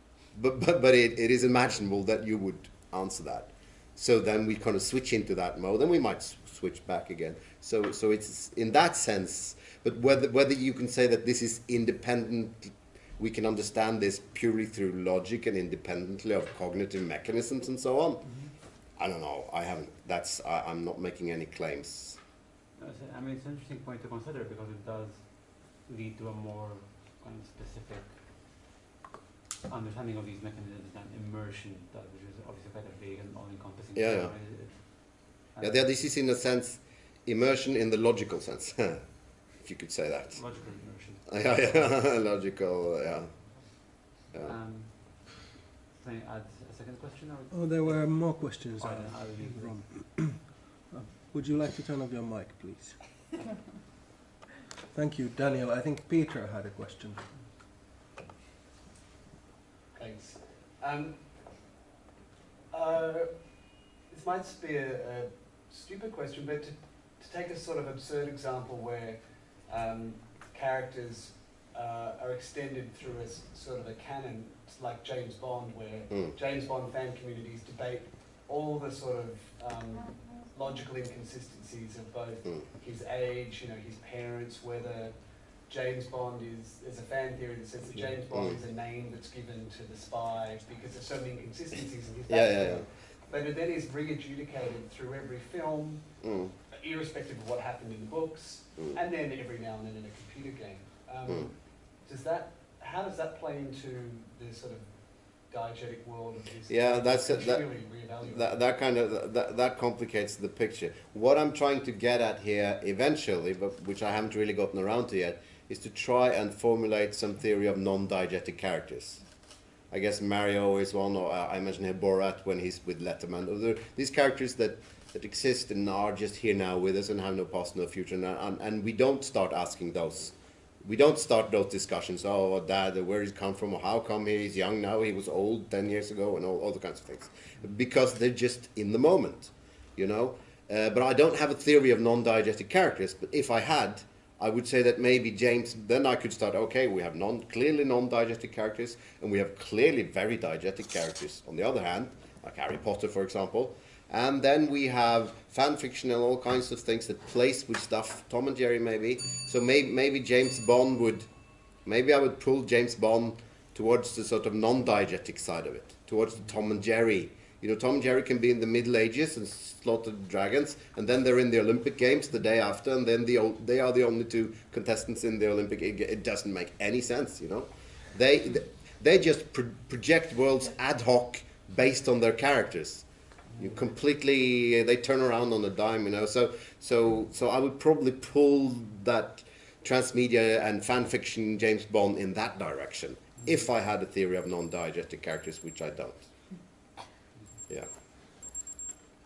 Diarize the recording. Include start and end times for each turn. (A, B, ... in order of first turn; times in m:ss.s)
0:00.3-0:18.4 A
0:19.0-0:22.2 A
0:22.8-0:28.4 B
0:29.7-0:35.8 B
0:33.9-0:34.3 A
0:35.6-0:39.0 A
0:39.6-0:40.4 A
0:40.3-0:42.0 B
0:41.2-0:43.7 A
0:44.4-0:50.1 B
0:47.5-0:53.0 C
0:54.9-0:57.2 C
0:59.9-1:01.6 D
1:02.7-1:36.1 D
1:16.1-1:16.4 A
1:28.3-1:28.6 A
1:32.3-1:32.8 A
1:36.2-1:36.5 A
1:36.7-1:48.6 D
1:41.3-1:41.5 A
1:46.7-1:59.2 A
1:59.9-2:41.3 A
2:41.8-3:03.0 A
3:03.6-3:16.3 A